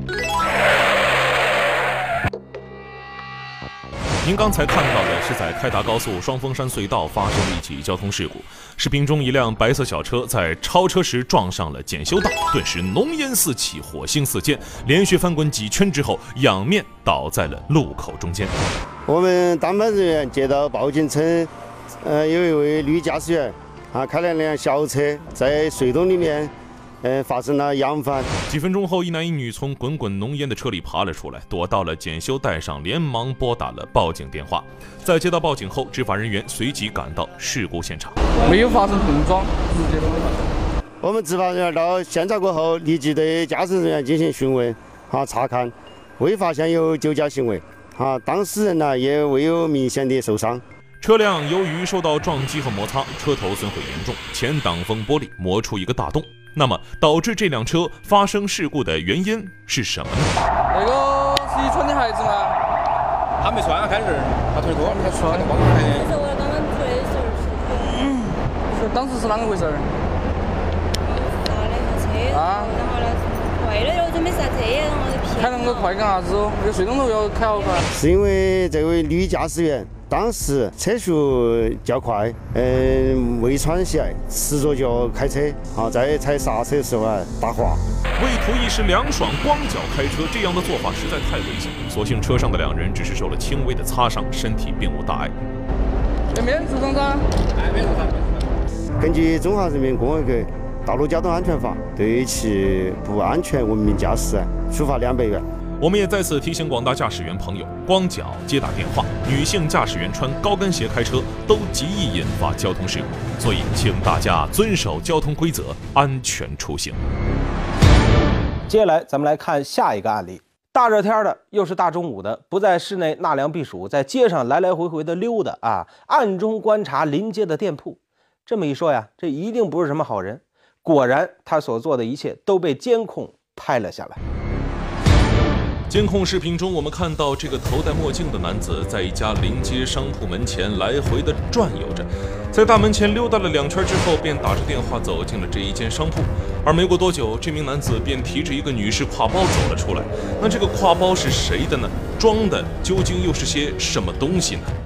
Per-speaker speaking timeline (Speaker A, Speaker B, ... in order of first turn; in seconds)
Speaker A: 4.2-18.5, 28.5-38.2, 51.0-60.3, 88.2-95.3, 105.8-117.0, 135.9-154.7
Speaker B: 19.1-28.3, 41.0-50.6, 77.9-87.8, 99.0-105.5
Speaker C: 38.4-40.1, 60.7-62.5, 64.7-66.0, 68.8-69.9, 72.3-72.7, 75.4-77.8, 96.3-97.2
Speaker D: 63.4-65.9
Speaker E: 65.9-68.0, 71.0-75.9, 77.5-77.8
Speaker F: 118.6-134.2